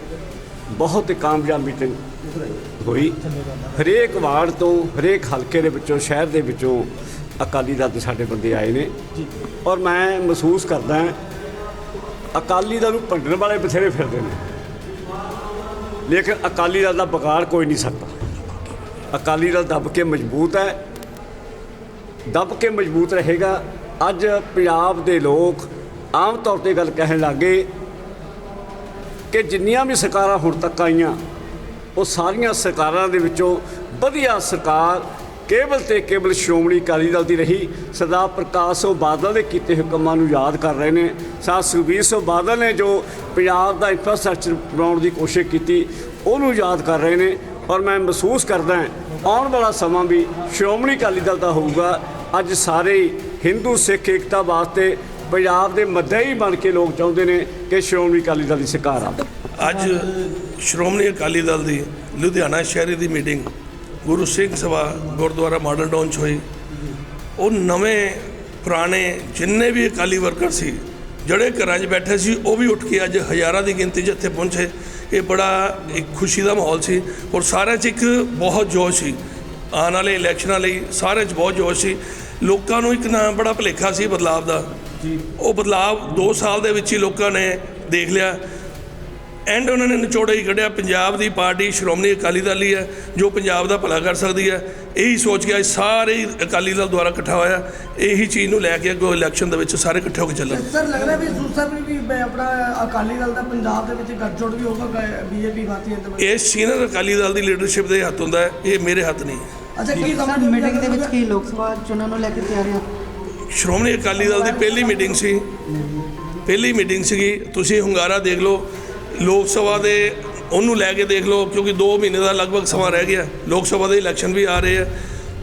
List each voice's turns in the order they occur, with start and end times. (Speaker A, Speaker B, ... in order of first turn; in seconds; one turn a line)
Speaker A: 0.7-2.0
Speaker A: 2.8-3.2
Speaker A: 3.7-8.9
Speaker A: 9.6-11.2
Speaker A: 12.3-14.4
Speaker A: 16.1-18.5
Speaker A: 19.1-20.8
Speaker A: 22.3-27.7
Speaker A: 29.3-31.2
Speaker A: 31.9-59.2
Speaker B: 59.6-63.5
Speaker B: 64.0-66.4
Speaker B: 67.4-79.2
Speaker B: 79.7-84.7
Speaker B: 85.2-88.4
Speaker B: 89.5-100.7
Speaker C: 100.5-106.3
Speaker B: 106.2-109.5
Speaker C: 109.8-111.2
Speaker D: 110.0-112.9
Speaker B: 113.5-115.5
Speaker B: 116.5-124.9